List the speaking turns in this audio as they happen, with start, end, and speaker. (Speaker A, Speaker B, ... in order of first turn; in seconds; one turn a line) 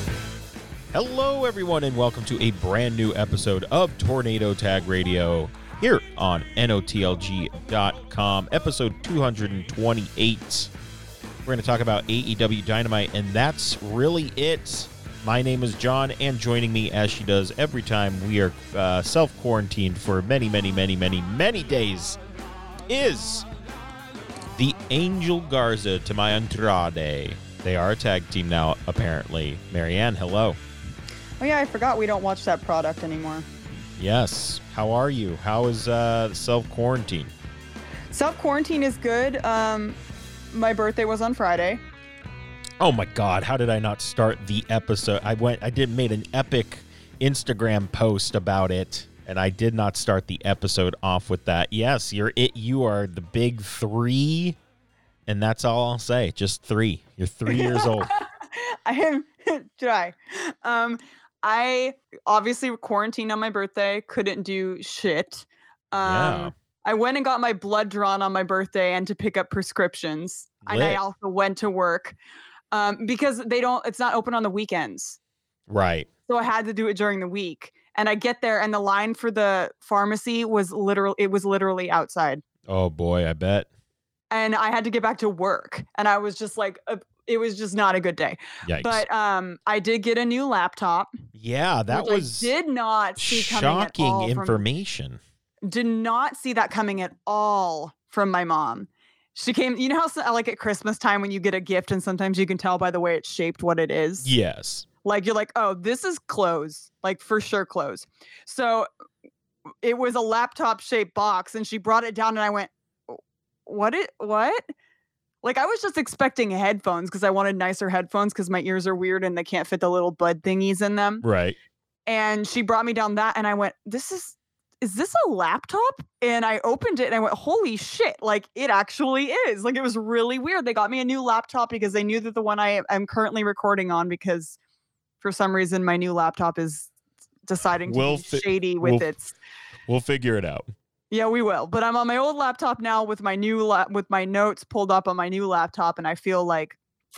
Speaker A: 0.9-10.7
Speaker A: 11.4-22.2
Speaker A: 22.9-23.5
Speaker A: 24.5-30.6
Speaker B: 31.4-33.5
Speaker A: 34.0-37.3
Speaker B: 38.1-40.0
Speaker B: 40.5-41.8
Speaker A: 42.8-54.5
Speaker A: 55.3-58.1
Speaker B: 57.5-72.2
Speaker A: 66.0-66.5
Speaker A: 70.7-71.0
Speaker B: 72.7-75.2
Speaker A: 75.7-76.1
Speaker B: 76.3-82.4
Speaker A: 82.7-83.7
Speaker B: 84.3-91.1
Speaker A: 88.6-89.0
Speaker A: 91.3-92.5
Speaker B: 91.9-94.6
Speaker A: 93.2-95.2
Speaker B: 95.7-104.3
Speaker A: 104.2-104.9
Speaker B: 105.0-108.9
Speaker B: 109.8-114.6
Speaker B: 115.4-121.2
Speaker A: 121.2-121.5
Speaker B: 122.1-134.6
Speaker B: 135.2-136.9
Speaker B: 137.5-139.3
Speaker A: 137.9-139.1
Speaker A: 139.9-140.7
Speaker B: 141.1-146.8